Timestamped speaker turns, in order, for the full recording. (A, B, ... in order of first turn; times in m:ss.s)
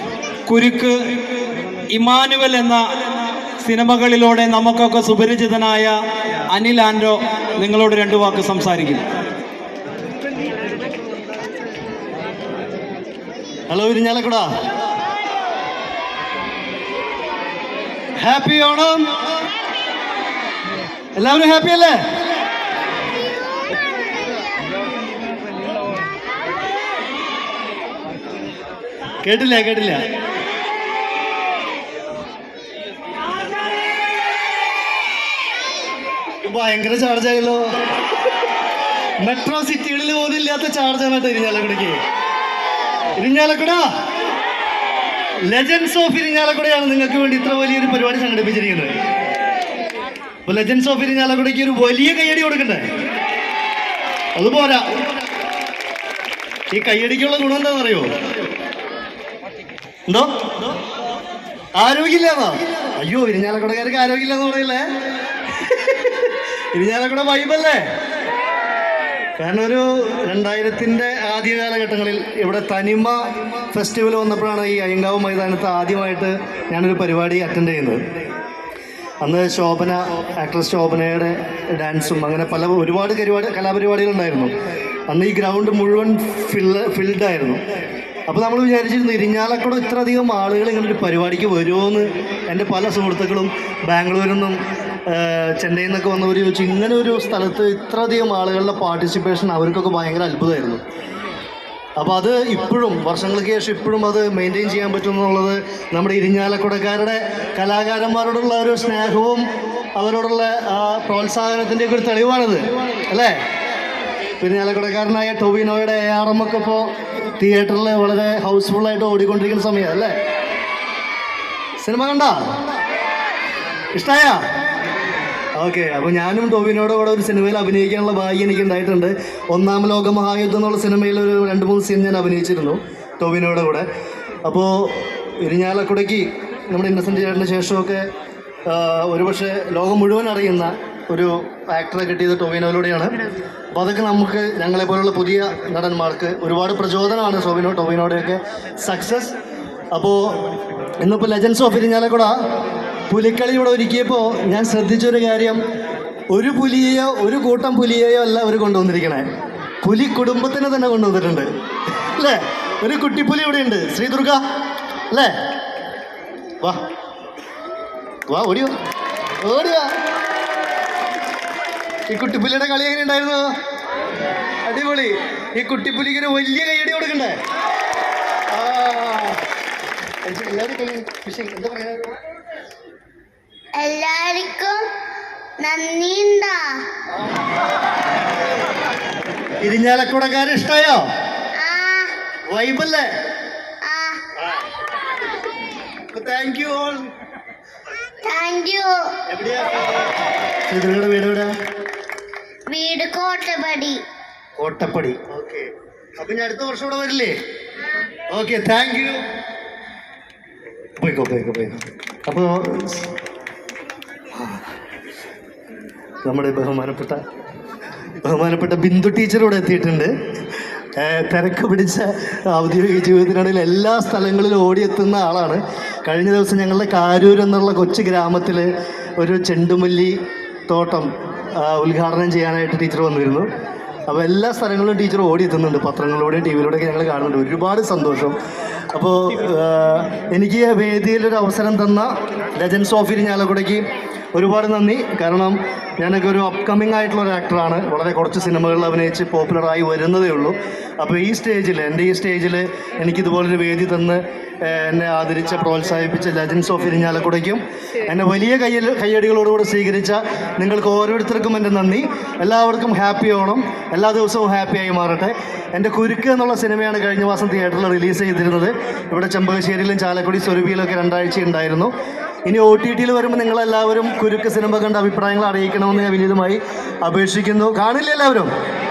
0:00.5-0:01.0 A
0:01.9-0:03.1 A
0:03.6-0:06.0 A
0:06.5-0:09.1 A
0:13.7-0:14.5 B
0:18.2-0:19.1 B
0:21.2-0:22.0 B
0:29.2-0:30.1 B
0:36.4-0:37.7 B
0:39.2-0:42.0 B
0:43.2-0:43.9 B
0:45.4-0:48.9 B
0:50.5-0:52.9 B
0:54.4-0:55.0 B
0:56.7-0:58.1 B
1:00.1-1:00.3 B
1:01.8-1:04.9 B
1:05.8-1:07.9 B
1:09.4-1:18.0 B
1:19.2-1:24.5 B
1:25.1-1:27.6 B
1:28.3-1:40.8 B
1:42.0-1:53.4 B
1:54.4-2:00.2 B
2:01.8-2:02.6 B
2:03.9-2:04.4 B
2:05.6-2:13.9 B
2:14.4-2:18.1 B
2:18.6-2:23.2 B
2:23.7-2:29.4 B
2:29.9-2:30.4 B
2:31.0-2:32.3 B
2:33.1-2:35.6 B
2:36.3-2:39.3 B
2:39.8-2:41.5 B
2:42.0-2:44.4 B
2:48.3-2:48.8 B
2:49.4-2:49.9 B
2:52.1-2:53.5 B
2:54.6-2:57.4 B
2:58.5-2:59.4 B
3:00.2-3:02.2 B
3:03.8-3:04.9 C
3:05.6-3:06.9 C
3:09.6-3:11.0 B
3:11.6-3:12.1 C
3:12.5-3:13.1 B
3:13.8-3:14.2 C
3:16.1-3:17.1 B
3:18.2-3:19.1 C
3:19.3-3:19.9 B
3:20.7-3:21.5 B
3:22.7-3:24.0 C
3:24.6-3:27.4 B
3:28.3-3:29.2 B
3:31.0-3:33.1 B
3:34.3-3:34.6 B
3:36.2-3:37.2 B
3:38.2-3:40.1 B
3:41.0-3:53.5 B
3:54.1-3:58.4 B
3:58.9-4:31.9 B
4:32.5-4:38.5 B